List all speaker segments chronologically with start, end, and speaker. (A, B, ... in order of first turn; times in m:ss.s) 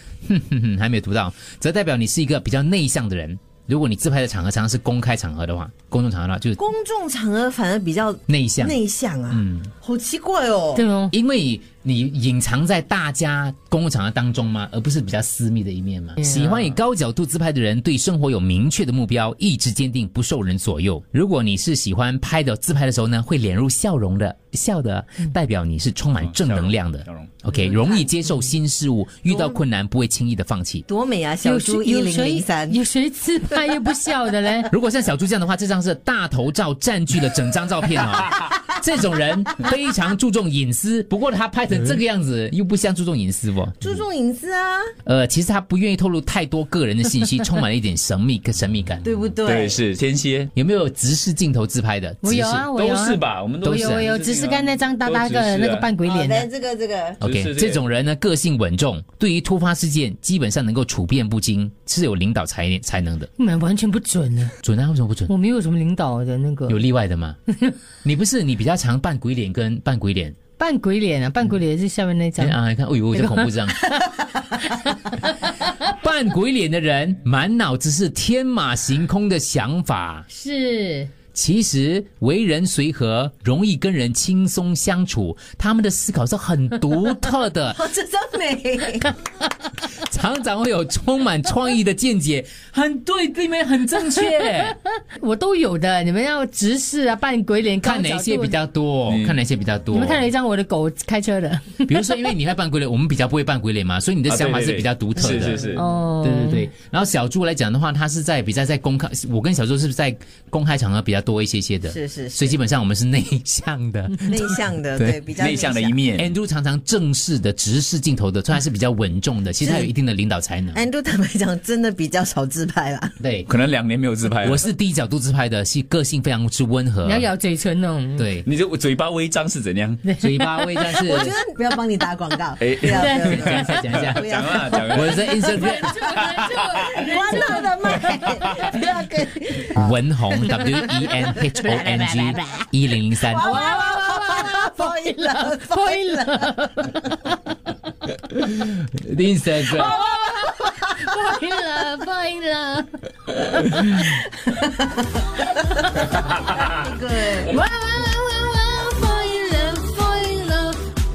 0:00.2-0:06.6 A
0:06.6-0:10.8 B
0:08.3-0:08.8 A
0:09.3-0:09.7 A
0:10.8-0:11.1 C
0:11.1-0:30.8 A
0:16.2-0:16.7 C
0:26.2-0:27.3 D
0:27.6-0:28.0 B
0:29.3-0:29.6 B
0:30.9-0:32.8 B
0:31.4-0:34.7 C
0:34.7-0:43.9 A
0:43.8-0:44.9 B
0:45.0-0:49.2 A
0:49.0-0:49.8 B
0:49.4-0:50.5 D
0:50.5-0:52.7 A
0:52.2-0:56.5 C
0:52.7-0:55.9 D
0:53.6-0:54.0 A
0:56.0-0:57.2 B
0:57.2-0:57.8 D
0:57.2-1:03.3 A
1:03.4-1:04.6 C
1:04.6-1:05.3 A
1:05.3-1:06.8 C
1:06.7-1:07.4 A
1:08.0-1:10.4 A
1:10.6-1:12.6 C
1:12.4-1:13.8 A
1:13.1-1:15.2 C
1:15.6-1:20.2 A
1:20.3-1:21.1 C
1:21.3-1:27.8 A
1:27.7-1:29.1 B
1:30.0-1:34.8 A
1:34.4-1:38.6 C
1:37.8-1:40.2 A
1:39.1-1:39.4 D
1:39.9-1:42.2 C
1:41.9-1:55.2 A
1:44.3-1:45.8 D
1:45.7-1:46.7 C
1:51.9-1:52.6 B
1:54.2-1:56.0 B
1:55.4-1:56.3 D
1:56.2-2:00.9 A
1:59.6-1:59.9 B
2:00.7-2:03.1 B
2:03.2-2:03.5 A
2:03.5-2:04.6 D
2:04.4-2:07.3 A
2:07.0-2:08.3 C
2:08.2-2:08.4 A
2:08.4-2:10.0 D
2:10.0-2:10.5 C
2:10.2-2:11.3 A
2:10.9-2:20.0 B
2:12.6-2:13.3 D
2:12.8-2:13.9 C
2:13.2-2:14.3 A
2:13.9-2:15.2 D
2:14.9-2:16.0 A
2:15.4-2:18.7 C
2:16.3-2:16.9 D
2:19.7-2:23.6 A
2:20.7-2:22.7 C
2:23.3-2:26.5 B
2:23.3-2:27.2 C
2:28.3-2:30.0 A
2:29.6-2:34.8 C
2:35.5-2:36.2 C
2:36.6-2:37.6 B
2:37.3-2:40.9 C